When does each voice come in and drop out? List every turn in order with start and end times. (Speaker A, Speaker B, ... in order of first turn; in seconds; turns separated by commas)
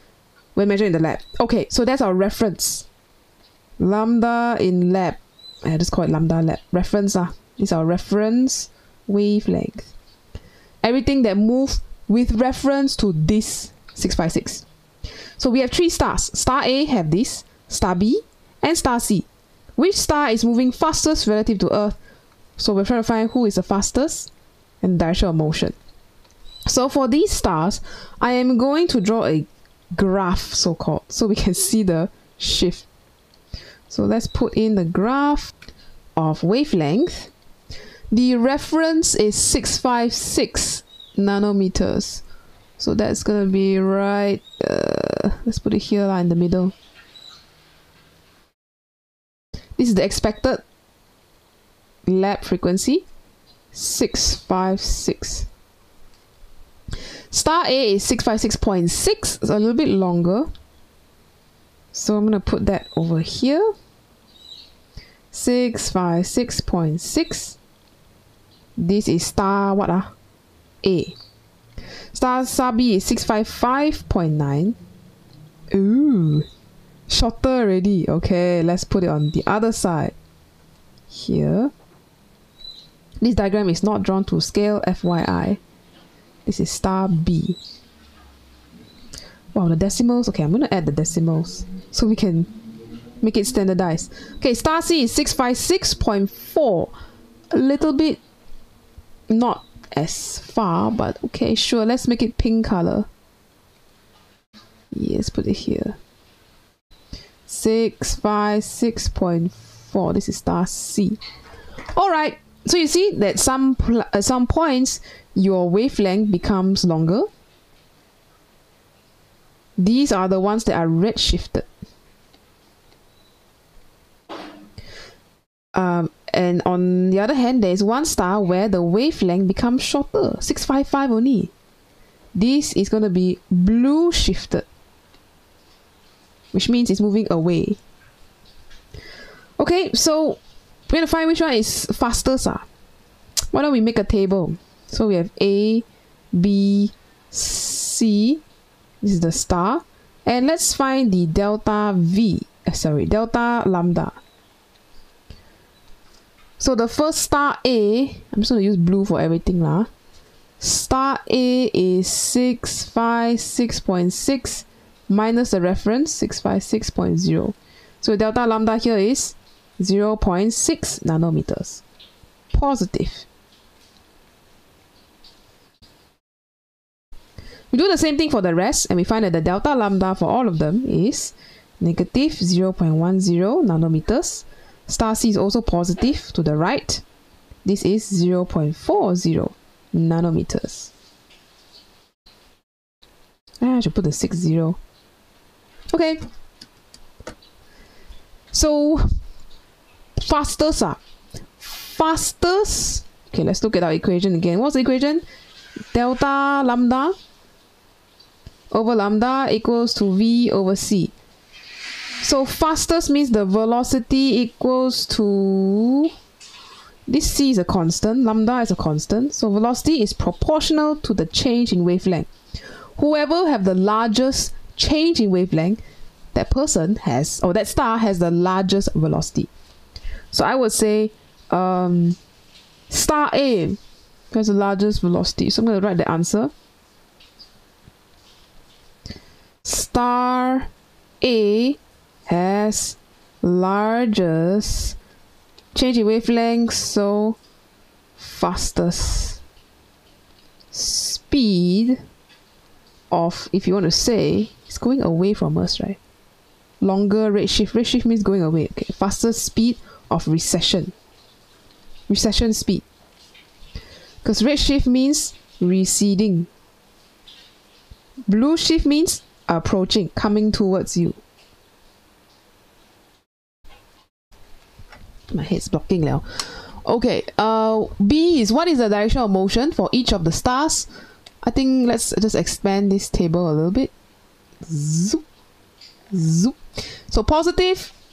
Speaker A: 0.5-2.9, Speaker A: 3.8-9.9, Speaker A: 10.8-14.6, Speaker A: 15.4-22.0, Speaker A: 22.6-24.3, Speaker A: 24.8-25.8, Speaker A: 26.6-32.9, Speaker A: 33.9-35.5, Speaker A: 36.1-37.3, Speaker A: 38.1-42.2, Speaker A: 42.8-46.7, Speaker A: 49.8-50.6, Speaker A: 52.0-53.0, Speaker A: 53.7-55.5, Speaker A: 57.3-60.5, Speaker A: 61.9-63.8, Speaker A: 65.3-67.6, Speaker A: 68.8-70.1, Speaker A: 70.8-71.2, Speaker A: 72.1-74.8, Speaker A: 75.7-76.5, Speaker A: 77.1-80.1, Speaker A: 81.1-81.7, Speaker A: 83.2-85.6, Speaker A: 86.5-87.6, Speaker A: 89.5-92.5, Speaker A: 93.2-96.9, Speaker A: 97.5-98.2, Speaker A: 99.3-103.1, Speaker A: 104.9-106.0, Speaker A: 107.5-111.2, Speaker A: 111.9-117.3, Speaker A: 119.8-121.7, Speaker A: 125.7-131.5, Speaker A: 132.3-134.7, Speaker A: 136.5-137.8, Speaker A: 139.6-142.7, Speaker A: 143.5-148.4, Speaker A: 149.0-154.2, Speaker A: 156.6-159.9, Speaker A: 160.6-171.8, Speaker A: 172.5-173.2, Speaker A: 177.7-187.0, Speaker A: 187.6-190.9, Speaker A: 193.6-194.8, Speaker A: 195.9-196.2, Speaker A: 198.5-199.0, Speaker A: 200.2-201.0, Speaker A: 201.6-205.2, Speaker A: 205.9-207.2, Speaker A: 208.7-211.1, Speaker A: 212.2-216.1, Speaker A: 217.1-225.8, Speaker A: 226.3-229.5, Speaker A: 230.3-232.2, Speaker A: 232.9-233.8, Speaker A: 234.3-236.5, Speaker A: 239.6-240.7, Speaker A: 241.2-244.9, Speaker A: 245.7-247.4, Speaker A: 248.2-249.4, Speaker A: 250.7-252.0, Speaker A: 253.1-256.0, Speaker A: 256.8-260.9, Speaker A: 262.1-262.8, Speaker A: 264.2-266.5, Speaker A: 268.3-271.2, Speaker A: 275.3-280.9, Speaker A: 281.4-283.9, Speaker A: 284.6-285.2, Speaker A: 286.1-287.9